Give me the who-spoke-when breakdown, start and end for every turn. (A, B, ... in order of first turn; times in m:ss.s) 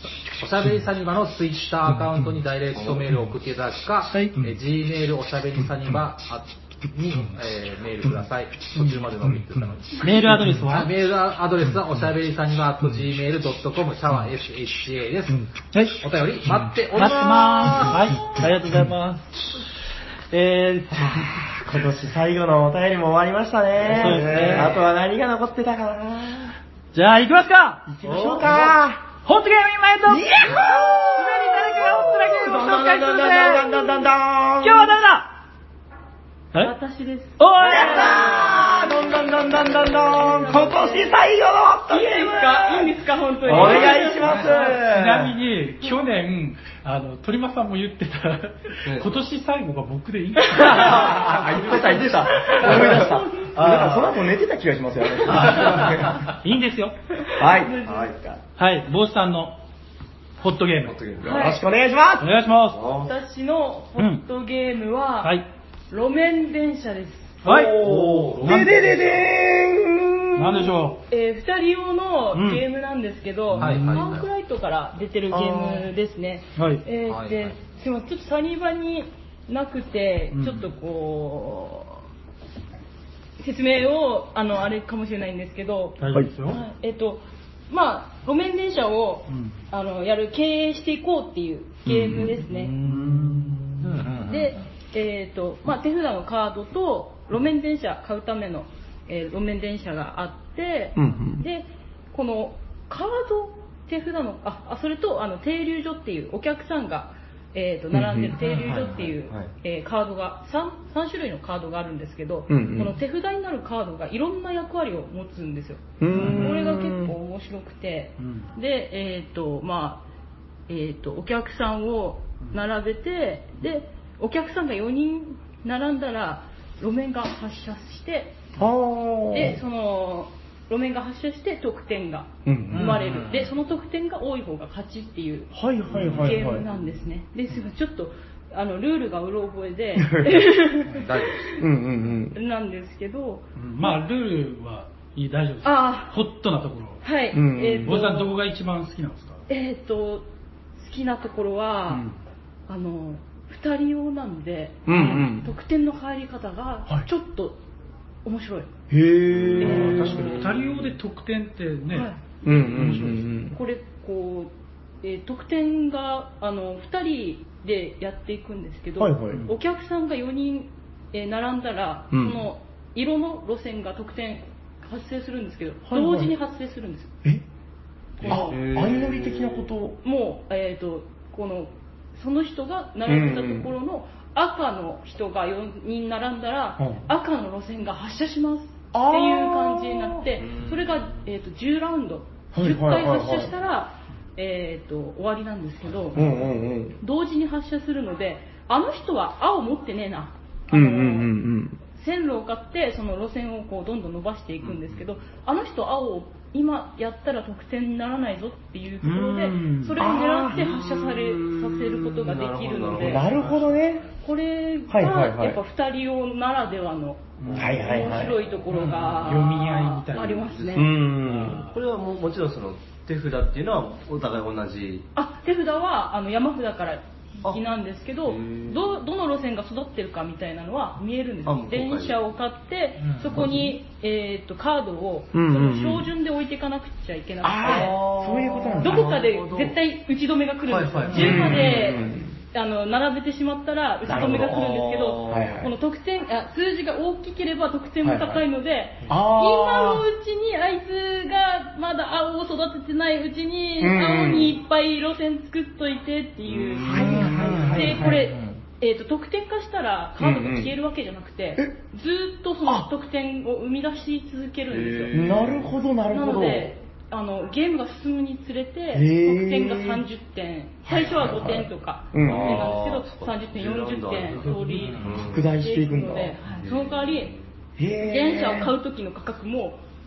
0:00.3-0:18.4 A
0:04.1-0:04.4 B
0:08.7-0:09.1 B
0:10.0-0:10.9 B
0:15.7-0:16.0 B
0:16.9-0:19.6 B
0:20.3-0:21.3 B
0:20.9-0:26.6 C
0:23.8-0:24.9 D
0:23.9-0:24.8 B
0:24.3-0:24.6 A
0:26.9-0:33.7 B
0:27.9-0:29.0 C
0:30.0-0:35.0 C
0:34.6-0:35.3 B
0:36.6-0:38.9 E
0:37.4-0:38.2 B
0:37.6-0:45.4 C
0:39.7-0:41.2 E
0:41.9-0:44.5 E
0:43.5-0:44.7 A
0:43.5-0:44.0 D
0:44.3-0:51.2 B
0:48.8-0:49.2 D
0:50.5-0:56.2 C
0:50.7-0:54.2 D
0:52.6-0:53.5 E
0:55.3-0:56.1 D
0:56.4-0:57.0 B
0:57.2-0:58.4 E
0:57.4-0:57.8 C
0:57.9-0:58.3 D
0:58.6-0:59.6 B
1:00.4-1:01.0 B
1:00.9-1:01.5 D
1:01.2-1:01.6 E
1:01.2-1:02.3 C
1:02.2-1:02.8 B
1:02.7-1:03.1 D
1:03.0-1:07.4 E
1:04.0-1:04.2 B
1:07.4-1:07.8 B
1:07.5-1:10.8 C
1:07.5-1:08.6 D
1:07.8-1:09.3 A
1:10.4-1:11.0 B
1:11.1-1:22.0 E
1:12.3-1:12.6 B
1:13.5-1:14.3 A
1:13.5-1:14.2 B
1:15.3-1:15.9 C
1:16.6-1:16.8 B
1:17.1-1:17.6 A
1:20.3-1:20.6 B
1:23.4-1:32.7 E
1:26.0-1:26.6 B
1:29.3-1:29.6 B
1:31.9-1:33.6 C
1:32.8-1:34.0 B
1:33.8-1:34.6 A
1:34.3-2:00.0 E
1:41.0-1:41.5 C
1:47.9-1:48.4 C
1:48.4-1:48.9 B
1:48.4-1:49.1 A
1:49.3-1:49.5 D
1:52.5-1:53.0 C
1:56.0-1:57.2 C
1:56.1-1:56.5 B
1:58.2-1:58.5 B
2:00.7-2:08.4 E
2:08.6-2:09.6 C
2:09.3-2:21.6 E
2:12.4-2:13.0 C
2:12.7-2:13.6 A
2:15.5-2:16.7 C
2:15.9-2:16.4 B
2:20.0-2:20.5 C
2:20.9-2:21.5 A
2:21.6-2:22.4 C
2:22.3-2:24.0 E
2:23.6-2:27.0 B
2:25.6-2:26.2 E
2:27.0-2:28.3 E
2:27.3-2:28.0 C
2:27.8-2:29.4 B
2:29.5-2:30.3 E
2:30.8-2:32.1 E
2:31.9-2:32.2 B
2:32.7-2:37.6 E
2:34.9-2:35.5 C
2:38.2-2:38.7 E
2:38.9-2:40.4 C
2:39.6-2:40.5 E
2:39.6-2:43.3 B
2:41.9-2:44.5 E
2:42.4-2:43.6 C
2:45.0-2:57.1 E
2:49.0-2:49.4 C
2:52.1-2:52.5 C
2:55.9-2:56.4 C
2:58.2-2:59.7 D
2:58.2-3:00.0 C
2:58.2-2:58.6 E
3:00.0-3:16.3 E
3:03.0-3:03.8 C
3:06.8-3:07.0 C
3:08.9-3:10.3 C
3:10.4-3:11.0 D
3:12.5-3:13.5 C
3:15.9-3:16.4 A
3:16.2-3:17.0 C
3:17.0-3:21.3 E
3:20.7-3:21.8 C
3:21.9-3:33.3 E
3:29.0-3:30.0 B
3:30.0-3:30.9 C
3:30.7-3:33.7 D
3:33.0-3:34.0 C
3:33.4-3:33.8 B
3:34.2-3:40.9 E
3:34.9-3:35.6 C
3:37.4-3:37.9 B
3:37.5-3:38.1 D
3:37.6-3:38.4 C
3:38.7-3:39.4 A
3:38.9-3:40.5 B
3:40.3-3:40.9 D
3:40.7-3:41.6 C
3:41.2-3:41.7 B
3:41.5-3:45.1 D
3:45.2-3:58.1 E
3:48.3-3:48.9 D
3:51.4-3:52.2 D
3:53.0-3:53.5 A
3:53.4-3:53.7 C
3:55.3-3:56.1 C
3:57.4-3:59.2 C
3:57.6-3:59.8 D
3:58.8-4:25.3 E
4:00.7-4:01.9 D
4:01.1-4:02.4 C
4:04.1-4:04.7 C
4:04.1-4:05.6 D
4:05.3-4:05.7 C
4:08.0-4:08.5 C
4:09.1-4:10.1 C
4:13.8-4:14.6 C
4:16.5-4:18.0 D
4:16.9-4:18.3 C
4:17.3-4:18.6 A
4:20.2-4:20.7 C
4:24.7-4:25.7 D
4:25.1-4:26.7 C
4:26.1-4:37.4 E
4:28.9-4:30.1 C
4:30.9-4:32.8 C
4:32.2-4:35.7 D
4:34.7-4:35.3 A
4:35.2-4:36.4 C
4:36.5-4:37.5 D
4:37.8-4:38.8 C
4:38.0-4:39.8 E